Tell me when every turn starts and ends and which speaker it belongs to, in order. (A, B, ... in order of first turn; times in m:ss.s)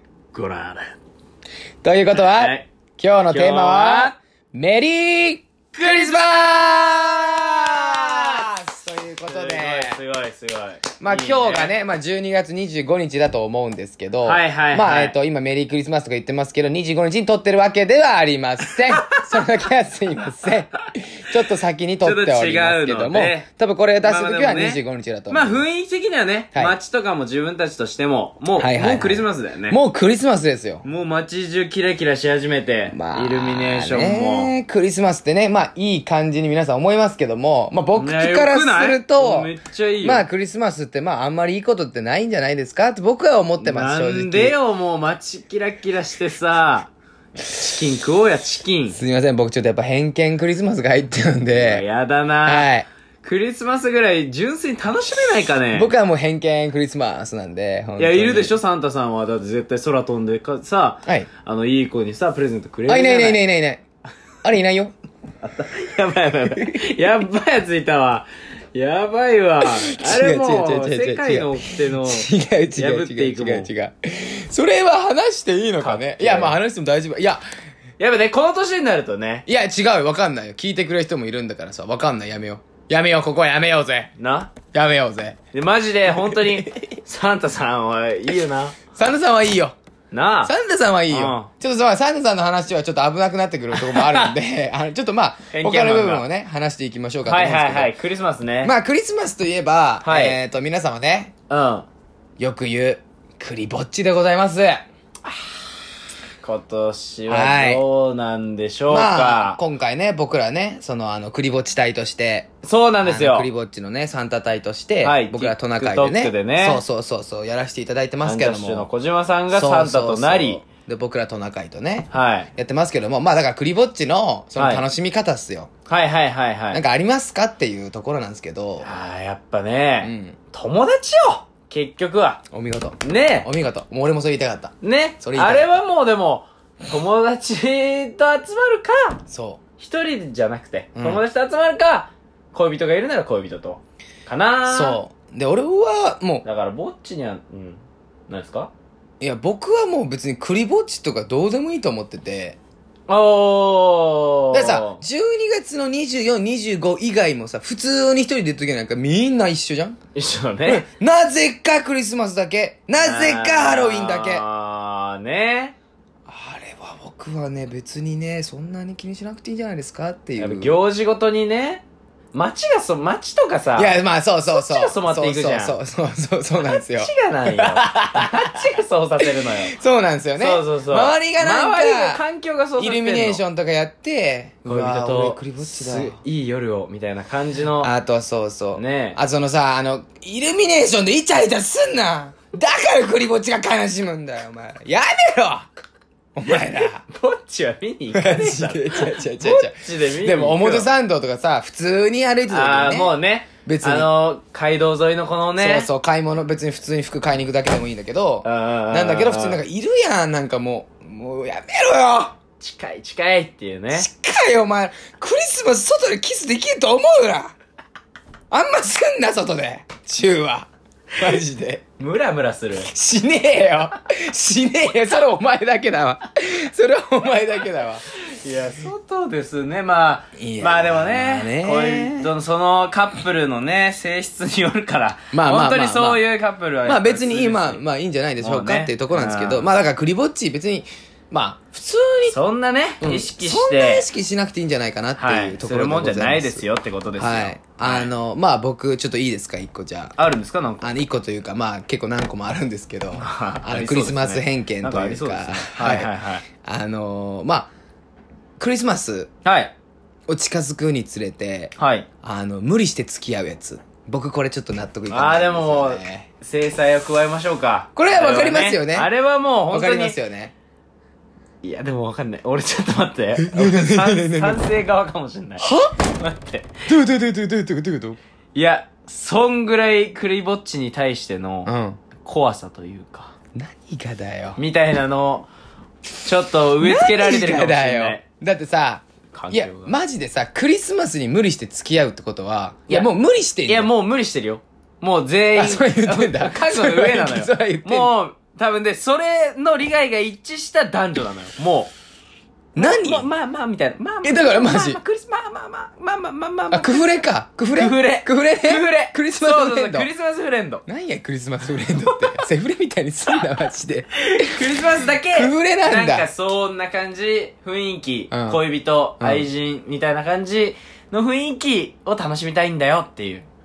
0:00.3-0:00.9 A
0:01.8-0:10.0 B
0:02.1-0:02.7 A
0:03.3-0:04.2 A
0:05.8-0:06.2 A
0:06.9-0:08.5 A
0:09.3-0:11.7 A
0:11.0-0:25.6 B
0:14.2-0:15.2 A
0:19.0-0:19.4 A
0:22.0-0:23.5 A
0:24.0-0:29.8 A
0:28.6-0:30.8 B
0:30.8-0:34.5 A
0:32.9-0:44.6 B
0:37.9-0:40.2 A
0:43.6-0:49.0 A
0:48.9-0:51.8 B
0:51.5-0:52.7 A
0:52.4-0:52.8 B
0:53.2-0:55.9 A
0:55.7-0:58.6 B
0:58.0-1:03.4 A
1:02.9-1:03.8 B
1:04.4-1:04.9 B
1:05.4-1:13.7 A
1:09.6-1:17.4 B
1:15.8-1:16.6 A
1:18.0-1:19.4 A
1:19.5-1:24.1 B
1:24.2-1:24.5 A
1:24.7-1:25.4 B
1:25.5-1:28.8 A
1:26.0-1:26.9 B
1:28.9-1:29.8 B
1:30.1-1:30.5 A
1:30.4-1:37.9 B
1:31.1-1:31.5 A
1:33.8-1:34.4 A
1:35.5-1:36.2 A
1:37.2-1:38.7 A
1:38.6-1:41.3 B
1:40.0-1:40.4 A
1:41.5-1:41.8 A
1:42.4-1:44.8 B
1:46.4-1:49.6 A
1:47.3-1:47.8 B
1:48.9-1:52.5 B
1:52.6-1:53.5 A
1:53.0-1:58.9 B
1:55.0-1:56.8 A
1:58.2-2:00.6 A
1:59.5-2:05.7 B
2:02.1-2:02.5 A
2:04.5-2:04.8 A
2:05.9-2:06.8 A
2:06.7-2:08.9 B
2:08.8-2:12.4 A
2:10.0-2:10.4 B
2:12.5-2:15.7 B
2:13.0-2:13.5 A
2:14.8-2:19.2 A
2:19.3-2:19.6 B
2:19.8-2:25.0 A
2:20.9-2:21.2 B
2:24.7-2:26.4 B
2:26.4-2:28.7 A
2:29.2-2:32.6 B
2:33.1-2:35.0 A
2:34.5-2:40.0 B
2:40.1-2:40.8 A
2:40.6-2:44.4 B
2:43.0-2:45.7 A
2:46.3-2:50.8 B
2:50.4-2:54.0 A
2:53.7-2:58.6 B
2:54.5-2:55.8 A
2:56.6-2:59.8 A
2:59.2-3:02.2 B
3:00.4-3:03.4 A
3:02.8-3:06.2 B
3:04.6-3:07.9 A
3:07.8-3:15.7 B
3:08.7-3:09.2 A
3:16.3-3:17.0 B
3:16.5-3:20.9 A
3:18.1-3:24.1 B
3:22.5-3:25.9 A
3:25.6-3:32.4 B
3:28.4-3:29.6 A
3:32.6-3:34.1 A
3:33.9-3:37.5 B
3:38.5-3:41.8 B
3:42.0-3:42.9 A
3:42.8-3:48.0 B
3:48.2-3:57.8 A
3:50.4-3:52.3 B
3:55.3-3:56.2 B
3:56.8-4:02.3 B
3:58.4-3:59.7 A
4:02.2-4:04.0 A
4:03.0-4:06.6 B
4:05.2-4:08.1 A
4:07.2-4:10.2 B
4:10.2-4:10.9 A
4:10.8-4:16.1 B
4:13.2-4:16.4 A
4:16.6-4:17.7 B
4:18.6-4:19.3 B
4:19.4-4:19.7 A
4:20.3-4:26.2 B
4:21.8-4:22.1 A
4:25.1-4:30.2 A
4:28.0-4:29.1 B
4:29.7-4:30.5 B
4:31.6-4:36.8 A
4:33.4-4:34.6 B
4:35.6-4:35.9 B
4:36.9-4:38.2 B
4:38.5-4:43.3 A
4:41.6-4:42.0 B
4:43.5-4:44.6 B
4:44.6-4:45.5 A
4:46.2-4:48.2 A
4:46.8-4:53.9 B
4:49.3-4:50.0 A
4:53.7-5:01.9 A
4:55.5-4:58.1 B
5:02.7-5:03.3 B
5:02.8-5:07.2 A
5:04.2-5:05.0 B
5:06.7-5:10.1 B
5:07.7-5:10.8 A
5:10.9-5:14.7 B
5:12.0-5:12.4 A
5:14.2-5:23.4 A
5:15.3-5:16.3 B
5:18.3-5:18.6 B
5:19.2-5:19.5 B